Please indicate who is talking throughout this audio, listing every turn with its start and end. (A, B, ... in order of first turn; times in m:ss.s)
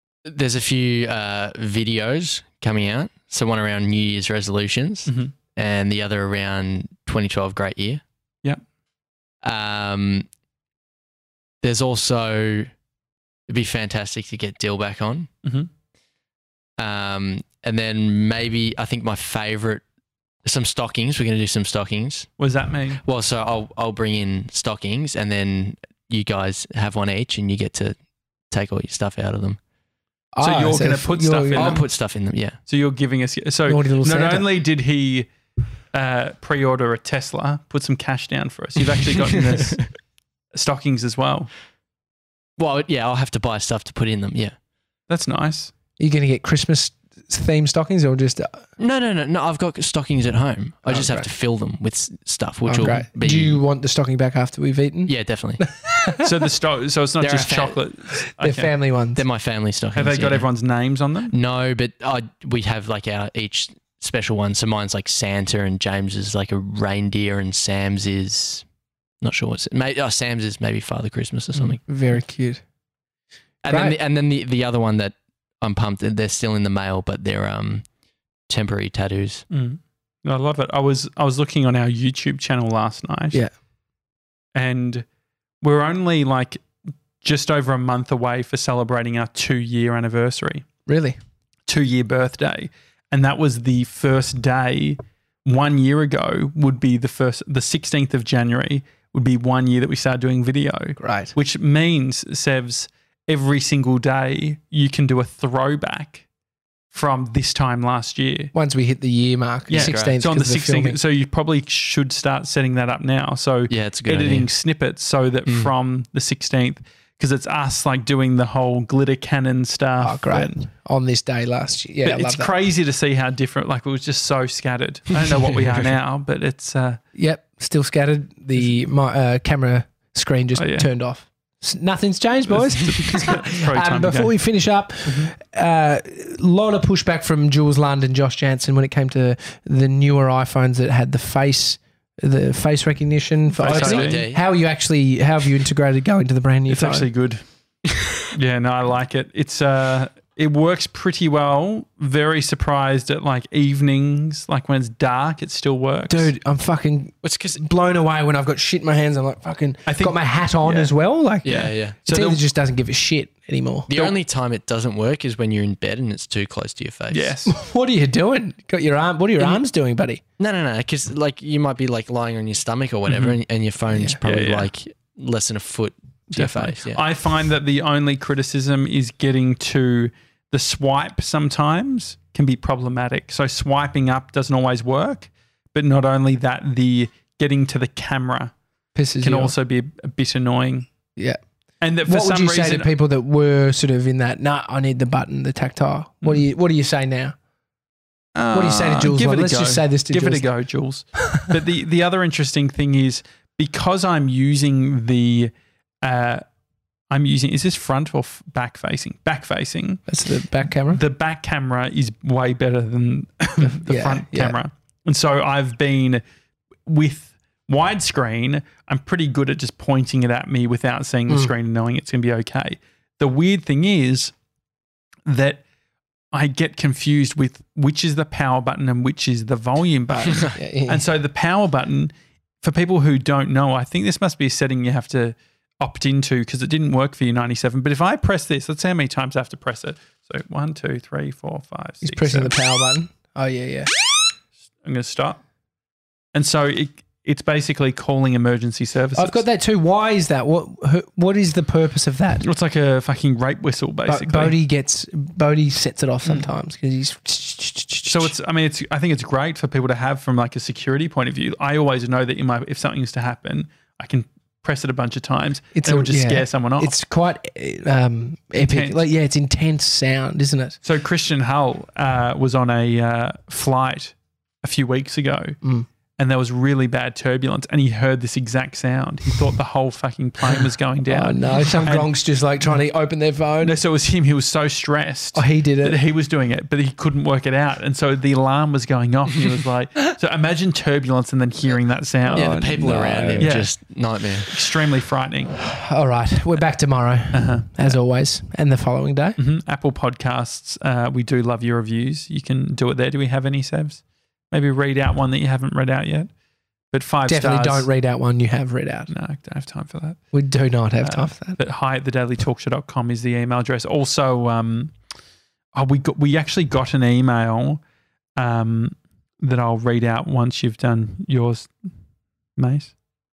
0:00.2-0:08.0 A
0:05.1-0:05.3 B
0:09.4-0:10.2 A
0:11.6-0:12.7 A
0:13.5-0:15.3 A
0:15.4-0:15.7 B
0:16.8-0:19.8 A
0:20.4-0:22.3 A
0:22.4-0:23.0 B
0:23.0-0:27.9 A
0:28.5-0:29.6 A
0:30.3-0:31.8 C
0:30.4-0:31.8 B
0:31.6-0:32.6 A
0:32.7-0:35.3 B
0:33.7-0:34.5 C
0:35.9-0:39.8 B
0:39.6-0:39.8 A
0:40.5-0:41.5 B
0:42.6-0:44.5 A
0:45.1-0:45.7 B
0:46.0-0:48.6 C
0:48.8-0:53.6 A
0:50.8-0:51.3 C
0:52.6-0:56.4 C
0:55.1-0:55.6 A
0:56.2-0:58.7 B
0:57.2-0:57.8 A
0:58.4-0:59.2 C
0:59.2-1:00.5 A
0:59.9-1:01.3 B
1:01.3-1:08.6 A
1:09.2-1:11.8 A
1:11.9-1:12.6 C
1:13.6-1:17.8 A
1:13.7-1:13.9 C
1:18.5-1:19.4 A
1:19.5-1:23.4 B
1:24.5-1:25.0 B
1:25.6-1:26.6 B
1:27.2-1:30.6 B
1:30.9-1:31.2 C
1:31.7-1:46.2 B
1:41.0-1:41.3 C
1:46.9-1:48.5 B
1:48.5-1:51.0 C
1:49.7-2:00.6 B
1:49.7-1:50.2 A
1:53.7-1:54.5 A
2:00.0-2:02.5 C
2:02.0-2:07.0 B
2:05.1-2:05.9 A
2:07.1-2:27.1 C
2:10.5-2:10.9 B
2:12.5-2:14.3 B
2:15.0-2:15.3 B
2:23.5-2:24.2 B
2:23.6-2:24.4 A
2:26.7-2:27.4 B
2:28.3-2:36.3 B
2:36.1-2:43.9 C
2:37.2-2:37.6 A
2:39.8-2:40.9 B
2:41.4-2:42.0 A
2:41.5-2:42.4 B
2:43.9-2:47.4 A
2:47.1-2:47.5 B
2:47.5-2:50.2 C
2:50.4-2:57.0 A
2:53.1-2:53.4 B
2:54.2-2:54.7 B
2:56.3-3:08.5 B
3:08.9-3:09.5 C
3:09.2-3:10.9 B
3:11.8-3:12.9 B
3:12.0-3:17.3 C
3:18.3-3:25.5 B
3:18.5-3:20.5 C
3:26.0-3:26.4 B
3:27.1-3:30.0 B
3:30.1-3:31.0 C
3:30.9-3:36.2 B
3:33.6-3:34.6 C
3:36.8-3:44.3 B
3:45.3-3:45.6 B
3:46.3-4:02.5 B
3:50.2-3:51.0 C
4:02.0-4:03.9 C
4:04.8-4:05.4 B
4:06.3-4:09.4 B
4:09.1-4:12.4 C
4:12.4-4:14.6 B
4:14.1-4:18.3 C
4:18.0-4:26.9 B
4:25.7-4:30.8 C
4:28.5-4:29.0 B
4:30.8-4:35.6 B
4:35.6-4:35.9 C
4:36.2-4:42.1 B
4:41.1-4:43.7 C
4:43.6-4:52.8 B
4:45.3-4:46.0 C
4:52.2-4:53.5 C
4:52.3-4:54.5 A
4:53.4-4:53.8 B
4:54.5-4:55.6 B
4:55.6-4:59.4 C
4:57.3-4:58.0 B
4:59.4-5:06.3 B
5:06.9-5:07.9 B
5:07.3-5:09.1 C
5:09.1-5:10.2 B
5:10.3-5:11.6 C
5:11.0-5:14.9 B
5:15.7-5:17.8 B
5:18.4-5:21.7 B
5:22.6-5:22.9 B